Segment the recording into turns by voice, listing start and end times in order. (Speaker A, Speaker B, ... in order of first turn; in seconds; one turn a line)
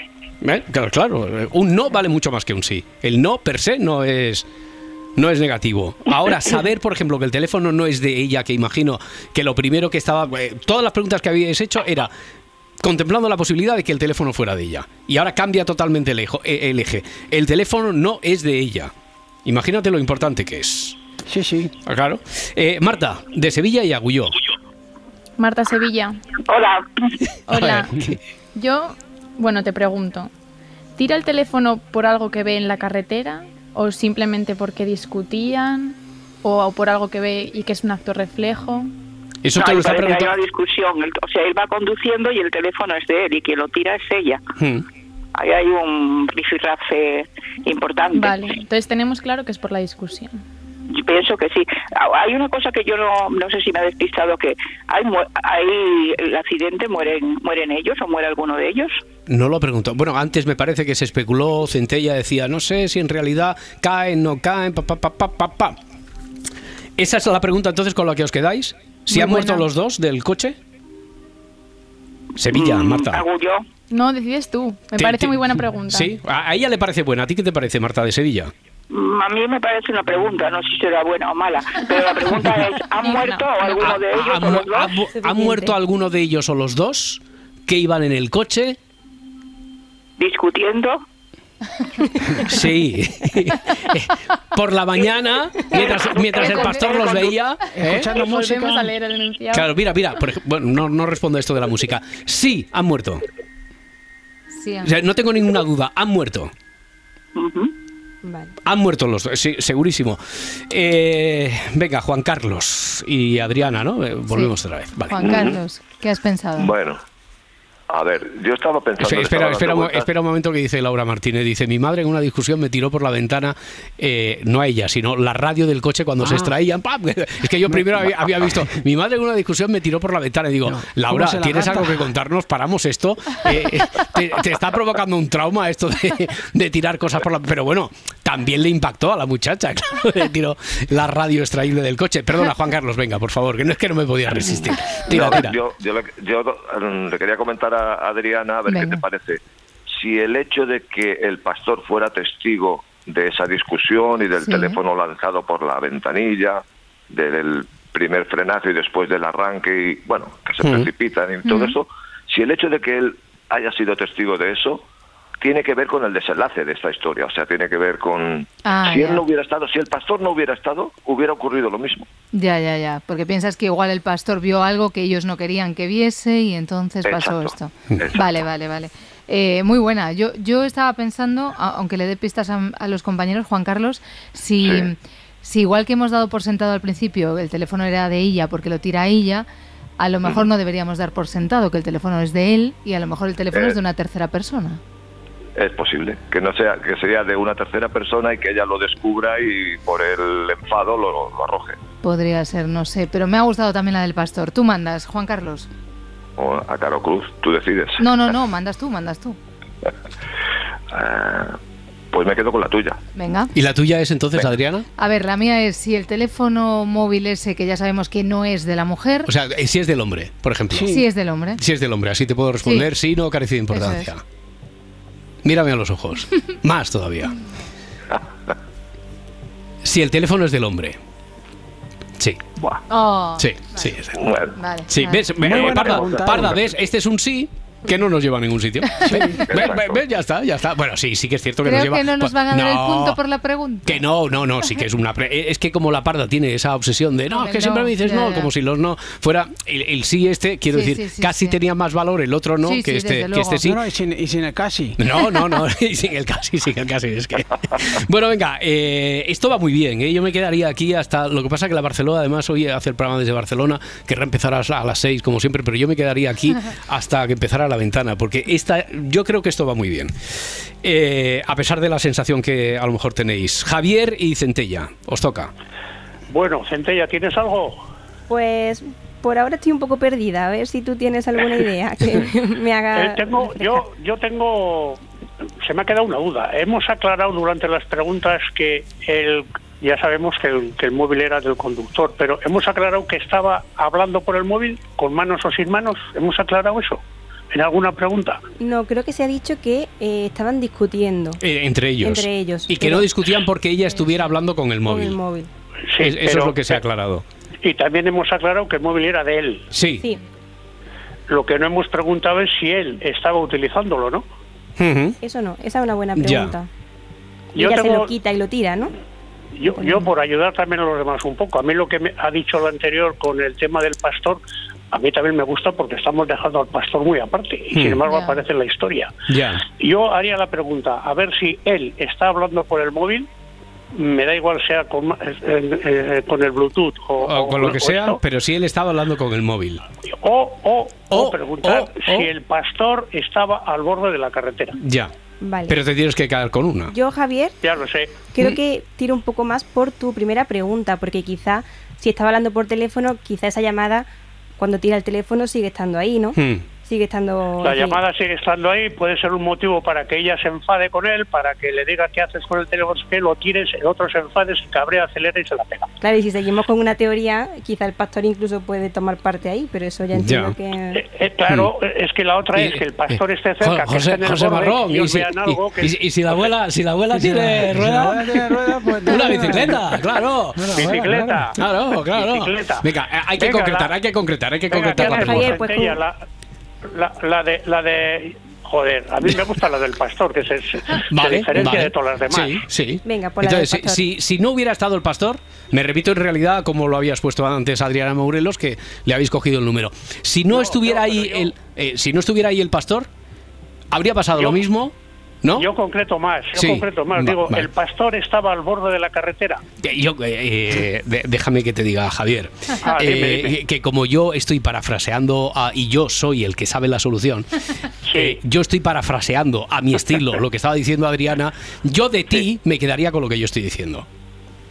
Speaker A: 0.4-4.5
Speaker A: 5.2-12.1
Speaker A: 12.8-18.9
Speaker A: 19.4-21.0
Speaker B: 21.3-21.7
Speaker A: 21.9-24.4
Speaker C: 25.4-26.2
Speaker D: 26.5-26.8
Speaker C: 27.5-27.9
Speaker A: 27.5-28.2
Speaker C: 28.6-30.3
Speaker C: 31.0-38.9
Speaker A: 39.4-40.4
Speaker D: 39.5-44.4
Speaker A: 44.6-44.9
Speaker D: 45.4-48.4
Speaker C: 48.1-50.4
Speaker D: 50.9-59.0
Speaker A: 59.3-65.8
Speaker A: 67.0-70.6
Speaker C: 69.1-69.7
Speaker A: 72.4-73.2
Speaker D: 72.4-73.7
Speaker C: 73.9-76.1
Speaker A: 75.0-78.5
Speaker D: 78.9-84.9
Speaker C: 83.0-84.0
Speaker A: 83.8-88.8
Speaker E: 85.1-85.7
Speaker D: 90.2-91.0
Speaker A: 92.4-98.1
Speaker D: 95.8-97.3
Speaker C: 96.4-96.8
Speaker B: 97.8-98.9
Speaker C: 97.8-99.7
Speaker A: 99.5-103.2
Speaker F: 104.5-104.9
Speaker A: 104.8-106.5
Speaker D: 107.3-107.7
Speaker E: 108.2-108.5
Speaker A: 108.6-115.5
Speaker F: 115.1-116.7
Speaker G: 115.2-115.6
Speaker G: 116.6-117.0
Speaker G: 117.9-120.1
Speaker A: 119.0-145.6
Speaker B: 126.2-126.5
Speaker B: 130.7-132.1
Speaker G: 144.4-164.9
Speaker F: 148.7-149.0
Speaker F: 154.4-154.8
Speaker F: 161.5-161.7
Speaker G: 165.4-172.1
Speaker F: 168.7-169.2
Speaker F: 172.3-189.5
Speaker G: 177.0-178.4
Speaker G: 184.6-184.9
Speaker F: 190.0-194.8
Speaker G: 195.6-201.8
Speaker F: 202.0-205.7
Speaker G: 206.4-208.0
Speaker F: 208.0-209.4
Speaker G: 210.9-211.6
Speaker G: 212.1-213.0
Speaker F: 213.2-213.5
Speaker A: 213.5-214.9
Speaker F: 215.0-219.3
Speaker A: 219.3-221.0
Speaker B: 220.7-221.0
Speaker F: 220.9-221.6
Speaker A: 221.6-224.2
Speaker F: 222.6-222.9
Speaker F: 223.7-224.1
Speaker A: 225.4-227.3
Speaker A: 229.8-231.0
Speaker F: 232.9-234.0
Speaker A: 233.4-234.2
Speaker G: 234.2-234.5
Speaker F: 234.5-235.3
Speaker A: 234.9-243.2
Speaker B: 235.4-236.6
Speaker F: 239.0-239.4
Speaker B: 239.1-239.4
Speaker G: 239.5-240.0
Speaker F: 241.6-244.0
Speaker A: 243.9-253.8
Speaker F: 247.3-248.5
Speaker F: 250.7-251.6
Speaker F: 252.6-253.6
Speaker B: 253.6-255.0
Speaker A: 255.0-275.5
Speaker H: 276.3-277.8
Speaker E: 278.3-283.8
Speaker H: 282.9-285.0
Speaker H: 285.6-298.4
Speaker E: 298.6-301.4
Speaker A: 301.4-305.2
Speaker E: 302.0-303.1
Speaker E: 304.8-305.5
Speaker H: 305.9-306.8
Speaker A: 306.0-307.2
Speaker H: 307.6-309.7
Speaker A: 309.7-310.1
Speaker H: 311.3-314.2
Speaker A: 314.8-315.2
Speaker E: 315.2-316.7
Speaker A: 316.2-316.6
Speaker H: 317.6-318.1
Speaker E: 317.6-318.9
Speaker H: 319.6-324.4
Speaker E: 319.8-320.1
Speaker H: 324.9-329.1
Speaker A: 327.7-328.0
Speaker A: 329.3-329.6
Speaker H: 329.8-333.3
Speaker H: 333.9-338.2
Speaker A: 337.2-339.8
Speaker H: 340.1-344.8
Speaker A: 341.1-342.3
Speaker A: 344.8-345.1
Speaker E: 345.4-345.8
Speaker A: 345.7-346.9
Speaker E: 346.9-347.6
Speaker H: 347.6-348.2
Speaker E: 348.3-358.0
Speaker A: 356.4-356.6
Speaker H: 357.6-365.9
Speaker E: 366.0-371.0
Speaker A: 370.1-370.6
Speaker H: 370.9-376.0
Speaker A: 372.6-380.9
Speaker B: 377.1-380.0
Speaker B: 380.6-381.4
Speaker H: 380.7-381.6
Speaker A: 381.6-385.6
Speaker H: 382.1-383.9
Speaker H: 384.7-386.2
Speaker E: 385.0-386.0
Speaker H: 386.9-392.6
Speaker A: 391.1-403.1
Speaker E: 393.1-394.1
Speaker H: 400.5-401.5
Speaker A: 403.9-405.7
Speaker H: 404.4-404.6
Speaker H: 405.6-409.6
Speaker A: 406.6-407.7
Speaker A: 409.8-417.5
Speaker H: 412.8-413.6
Speaker H: 418.1-418.4
Speaker A: 418.1-424.1